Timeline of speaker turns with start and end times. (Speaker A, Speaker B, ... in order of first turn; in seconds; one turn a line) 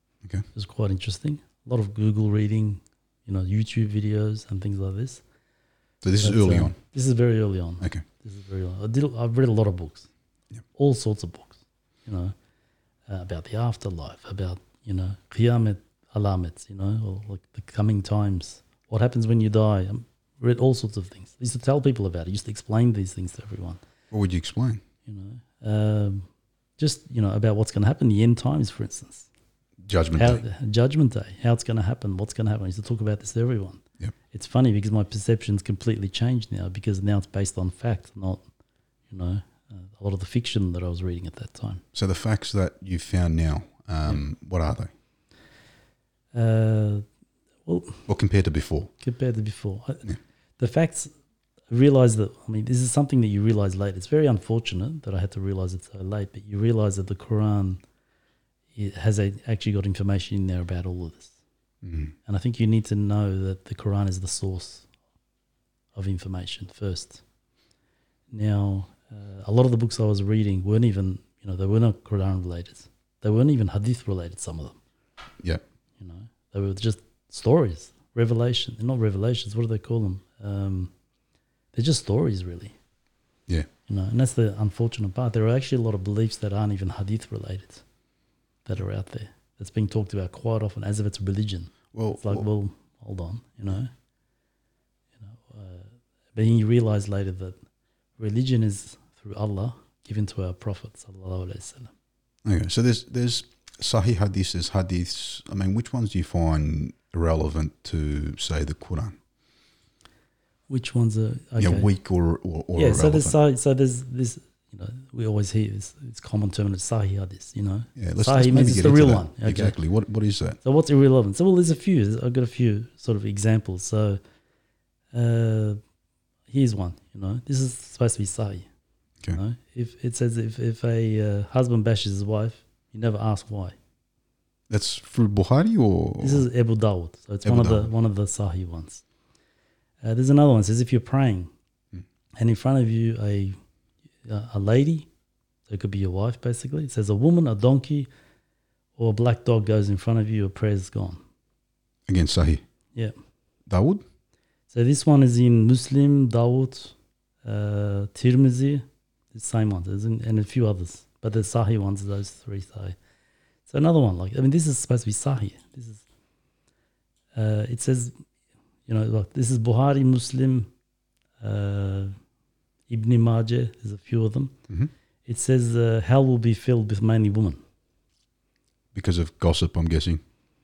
Speaker A: 0.5-5.2
Speaker B: 6.0-6.8
Speaker A: 6.2-10.1
Speaker A: 10.7-12.3
Speaker A: 13.1-23.8
Speaker B: 24.1-24.8
Speaker A: 25.1-26.3
Speaker A: 26.8-29.3
Speaker B: 29.8-30.4
Speaker A: 30.1-38.4
Speaker A: 39.1-41.8
Speaker B: 41.9-44.9
Speaker A: 46.3-47.0
Speaker A: 47.6-48.1
Speaker B: 48.1-48.9
Speaker A: 49.0-51.1
Speaker A: 51.7-57.8
Speaker A: 58.7-61.3
Speaker B: 61.8-62.1
Speaker A: 62.2-64.9
Speaker A: 65.9-67.2
Speaker A: 68.3-74.8
Speaker A: 76.0-80.9
Speaker A: 81.7-82.7
Speaker A: 83.9-87.8
Speaker A: 88.7-93.9
Speaker B: 91.9-92.5
Speaker A: 95.2-97.5
Speaker A: 98.2-101.9
Speaker B: 102.4-109.2
Speaker A: 110.7-111.9
Speaker B: 111.6-113.4
Speaker A: 112.8-119.7
Speaker B: 118.0-120.6
Speaker A: 120.6-124.2
Speaker A: 125.1-125.8
Speaker A: 126.5-128.7
Speaker A: 129.3-133.8
Speaker B: 134.7-136.5
Speaker A: 136.2-139.0
Speaker B: 137.4-137.9
Speaker A: 140.0-141.5
Speaker A: 142.4-143.6
Speaker A: 144.2-145.1
Speaker A: 145.7-148.1
Speaker A: 149.0-151.2
Speaker B: 152.1-152.6
Speaker B: 153.7-154.0
Speaker A: 154.7-162.9
Speaker A: 163.7-166.0
Speaker A: 167.3-168.1
Speaker A: 168.9-170.7
Speaker A: 171.4-172.1
Speaker A: 172.9-174.5
Speaker A: 175.2-177.6
Speaker B: 178.9-180.2